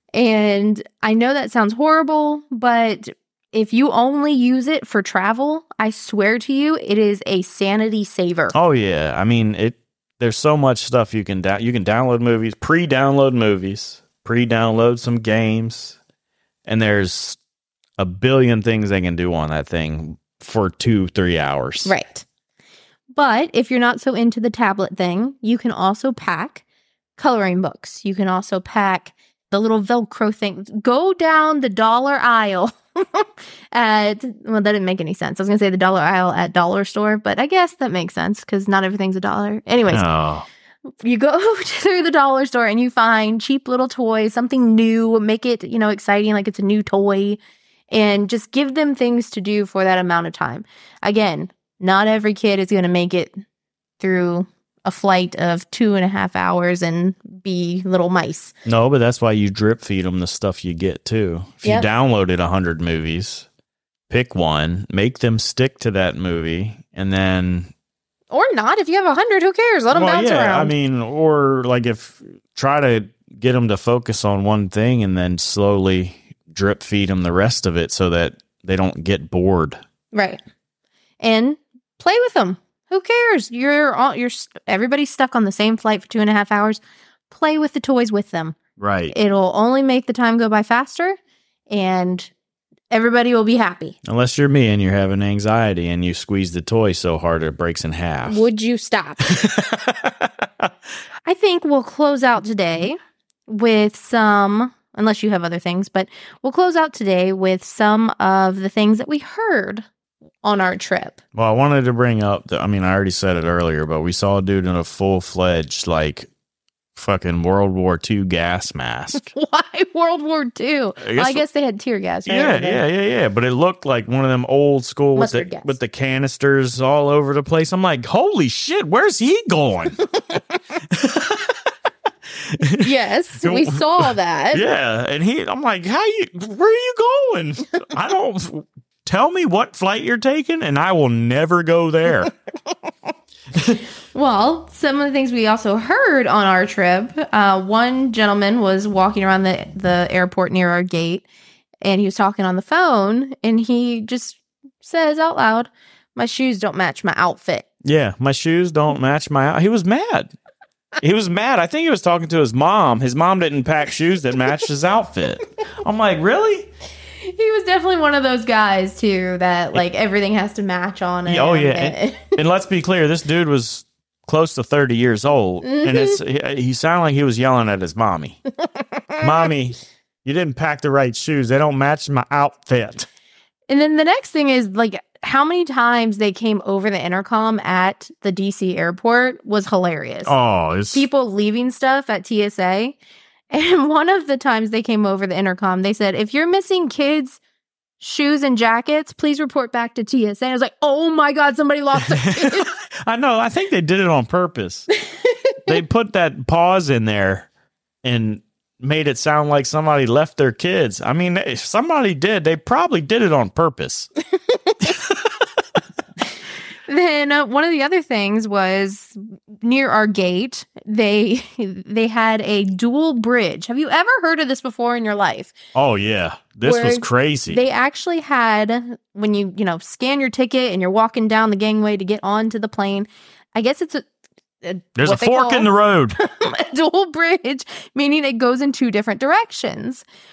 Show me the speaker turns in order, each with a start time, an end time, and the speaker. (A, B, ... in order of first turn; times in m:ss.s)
0:00.1-0:08.5 A
0:08.5-0:16.0 B
0:16.6-0:17.4 B
0:18.0-0:21.9 B
0:21.8-0:22.2 A
0:23.1-0:26.6 A
0:27.2-0:40.0 A
0:39.9-0:40.5 B
0:41.0-0:47.4 A
0:47.9-0:53.4 A
0:54.0-0:58.5 A
0:58.6-1:03.4 B
1:04.1-1:07.7 B
1:08.3-1:10.7 A
1:09.9-1:19.8 B
1:20.1-1:20.4 A
1:21.2-1:28.6 A
1:28.8-1:29.1 B
1:29.1-1:31.2 A
1:31.7-1:32.3 A
1:32.9-1:33.9 A
1:34.0-1:38.4 B
1:38.3-1:39.4 A
1:39.2-1:40.7 B
1:41.2-1:49.8 A
1:50.4-1:51.2 A
1:51.3-1:56.3 B
1:57.0-1:59.3 B
1:59.2-2:02.8 A
2:01.0-2:01.4 B
2:02.2-2:10.0 B
2:05.1-2:05.7 A
2:10.0-2:10.6 A
2:10.9-2:11.7 B
2:12.4-2:22.3 B
2:12.8-2:14.6 A
2:23.5-2:23.8 B
2:24.1-2:31.3 A
2:31.8-2:37.7 A
2:37.8-2:40.3 B
2:41.0-2:46.7 B
2:47.2-2:52.4 A
2:51.2-2:58.4 B
2:55.6-2:56.2 A
2:58.6-2:59.5 A
2:59.2-3:03.1 B
3:03.7-3:10.3 A
3:10.2-3:11.0 B
3:10.9-3:13.0 A
3:13.5-3:17.4 A
3:18.0-3:22.7 A
3:22.0-3:24.9 B
3:25.0-3:25.8 A
3:25.6-3:27.5 B
3:28.0-3:34.1 B
3:34.5-3:34.9 A
3:34.9-3:35.2 B
3:36.9-3:45.5 A
3:45.7-3:47.6 B
3:46.6-3:54.1 A
3:54.6-4:00.0 A
3:55.0-3:56.2 B